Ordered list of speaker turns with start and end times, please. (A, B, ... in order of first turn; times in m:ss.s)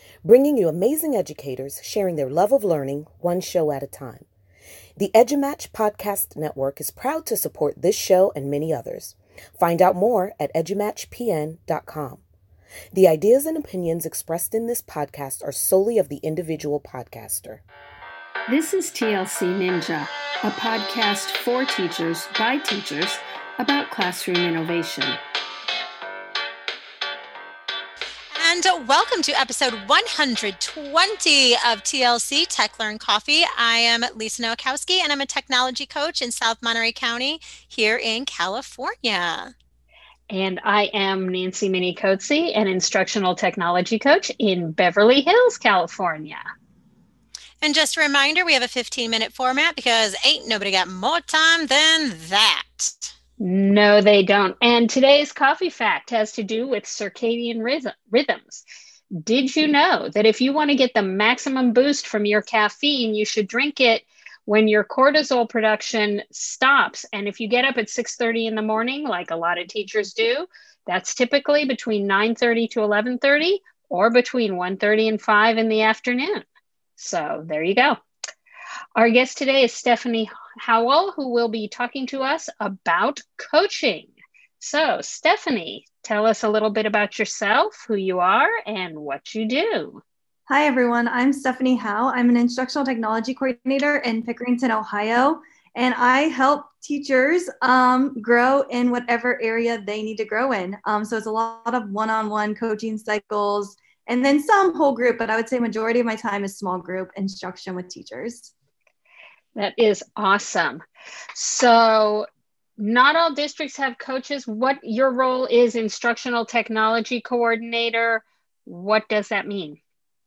0:00.2-0:04.3 A
0:05.0-0:12.2 A
0:12.9-0:17.6 A
0:18.5-0:25.2 B
0:28.4-0:39.5 C
0:40.3-0:46.4 D
0:47.6-0:53.1 C
0:53.4-1:16.5 D
1:17.0-1:18.0 D
1:19.0-1:30.0 D
1:30.5-1:48.5 E
1:49.6-1:50.8 D
1:51.4-1:52.3 D
1:52.8-1:59.8 D